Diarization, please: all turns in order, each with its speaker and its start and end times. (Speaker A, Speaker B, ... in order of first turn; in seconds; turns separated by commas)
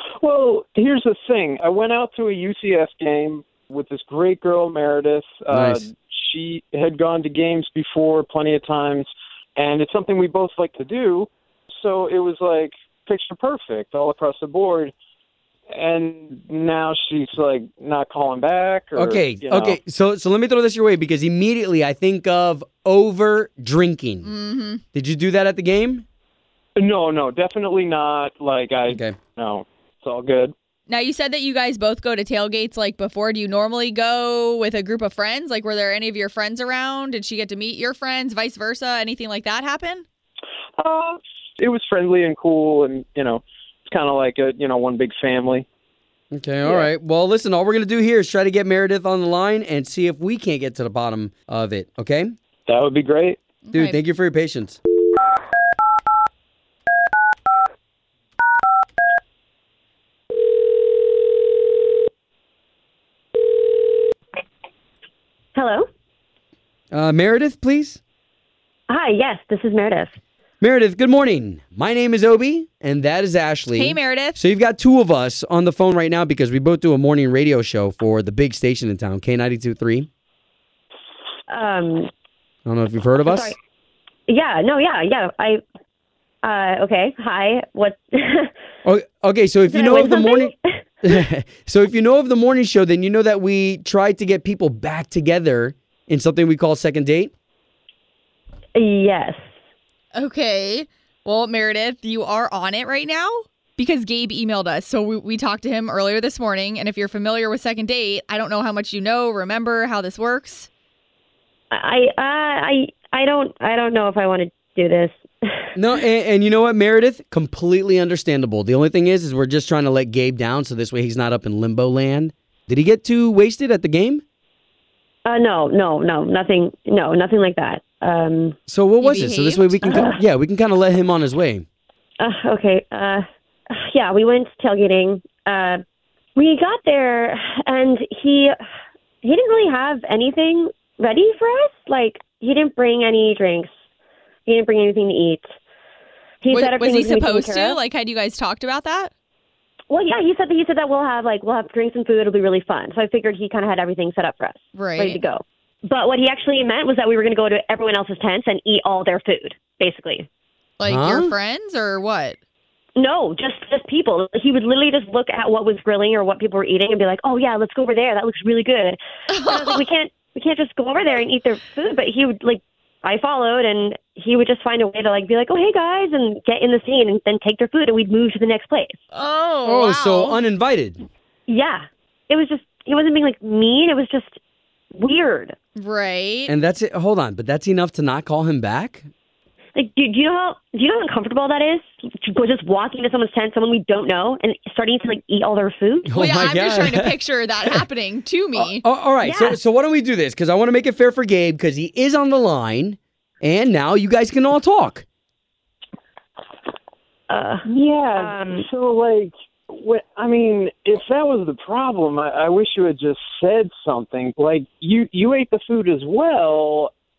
Speaker A: 0.2-14.9, Speaker B: 5.5-5.8, Speaker A: 15.7-19.8, Speaker B: 18.9-24.3, Speaker C: 24.2-24.8, Speaker B: 24.9-26.0, Speaker A: 26.8-30.5, Speaker B: 28.9-29.2, Speaker C: 30.9-40.0, Speaker A: 40.8-45.6, Speaker B: 46.3-52.3, Speaker A: 52.7-53.4, Speaker C: 53.6-54.0, Speaker B: 53.7-54.8, Speaker D: 65.5-65.9, Speaker B: 66.9-68.0, Speaker D: 68.9-70.1, Speaker B: 70.6-80.1, Speaker C: 73.7-74.4, Speaker D: 81.5-82.1, Speaker B: 82.6-83.5, Speaker D: 83.2-83.5, Speaker D: 84.3-85.6, Speaker D: 86.4-88.5, Speaker B: 88.8-97.3, Speaker D: 89.7-90.8, Speaker D: 98.7-99.4, Speaker C: 100.1-110.7, Speaker D: 111.7-115.7, Speaker B: 115.7-124.2, Speaker D: 125.2-128.6, Speaker B: 128.7-131.6, Speaker C: 129.0-130.1, Speaker D: 132.2-135.8, Speaker D: 136.3-138.6, Speaker D: 139.2-143.7, Speaker D: 144.4-145.5, Speaker D: 146.4-147.8, Speaker C: 146.5-149.1, Speaker D: 149.9-160.3, Speaker C: 154.7-155.2, Speaker C: 160.8-162.4, Speaker B: 160.9-161.3, Speaker D: 162.9-179.0, Speaker C: 169.3-169.8, Speaker C: 179.1-180.4, Speaker B: 179.6-181.0, Speaker D: 181.5-184.4, Speaker D: 184.9-185.5, Speaker C: 185.8-186.5, Speaker B: 186.5-189.0, Speaker D: 189.8-196.1, Speaker B: 196.1-197.2, Speaker C: 196.1-198.8, Speaker B: 198.5-205.0, Speaker D: 199.2-199.6, Speaker D: 207.3-208.7, Speaker A: 207.6-216.9